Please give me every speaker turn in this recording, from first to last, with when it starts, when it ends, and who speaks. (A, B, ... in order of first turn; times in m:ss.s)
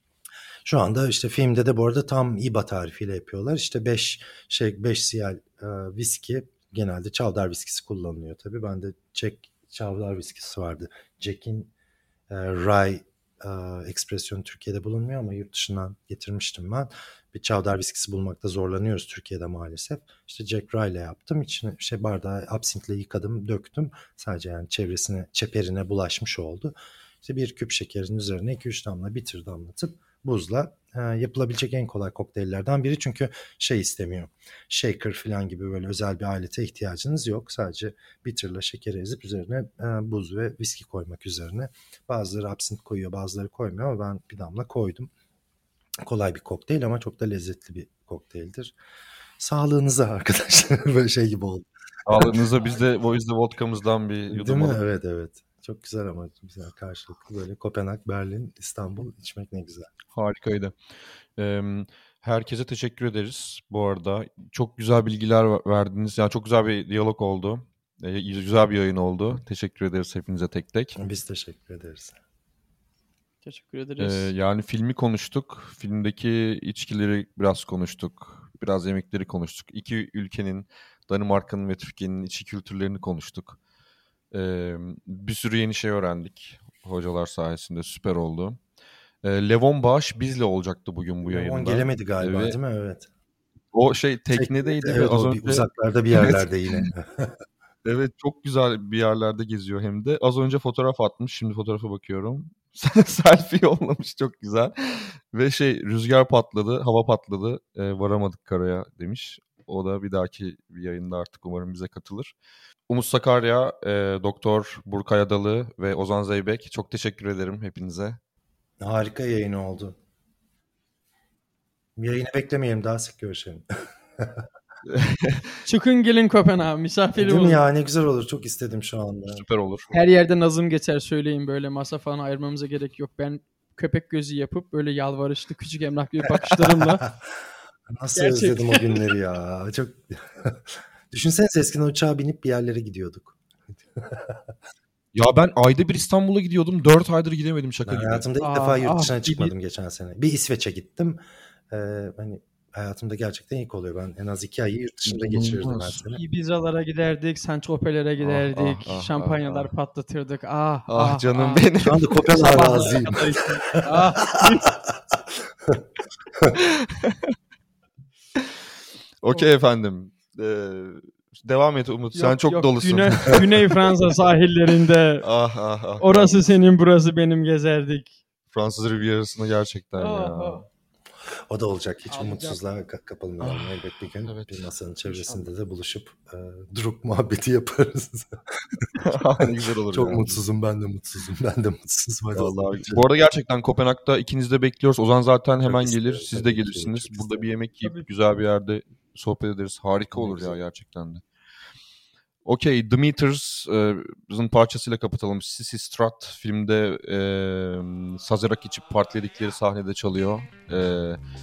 0:00.6-0:11.7 A
0:12.3-0:45.1 A
0:46.0-0:48.7 A
0:49.4-0:52.4 A
0:52.0-0:54.8 B
0:54.3-0:59.9 A
1:00.1-1:00.7 B
1:01.4-1:11.0 B
1:11.0-1:12.2 A
1:13.4-1:14.3 C
1:14.0-1:23.6 B
1:24.3-1:28.6 B
1:29.2-1:32.6 B
1:31.2-1:33.1 A
1:33.7-1:36.9 B
1:34.3-1:37.4 A
1:37.8-1:52.3 B
1:52.9-1:58.2 B
1:58.8-2:00.0 A
2:02.0-2:03.6 A
2:04.2-2:04.4 A
2:04.9-2:05.5 B
2:05.6-2:07.6 C
2:07.2-2:09.4 A
2:09.3-2:09.9 B
2:09.9-2:17.1 C
2:17.9-2:23.4 A
2:18.2-2:19.1 C
2:24.0-2:24.4 A
2:25.1-2:28.3 B
2:27.8-2:36.2 A
2:28.4-2:29.5 C
2:35.1-2:36.0 B
2:36.1-2:41.7 C
2:38.2-2:39.7 B
2:40.9-2:43.9 B
2:41.8-2:43.3 A
2:42.3-2:44.7 C
2:44.4-2:44.9 A
2:46.5-2:47.3 B
2:49.2-2:53.7 B
2:52.1-2:55.2 C
2:55.2-2:56.6 B
2:56.0-2:58.2 C
2:58.5-3:00.6 B
3:00.0-3:00.6 C
3:01.5-3:08.9 A
3:02.1-3:02.6 C
3:03.4-3:05.5 B
3:08.9-3:10.4 B
3:09.4-3:13.0 A
3:12.3-3:21.2 B
3:15.6-3:17.5 A
3:17.8-3:18.1 C
3:20.1-3:20.6 A
3:22.4-3:31.2 B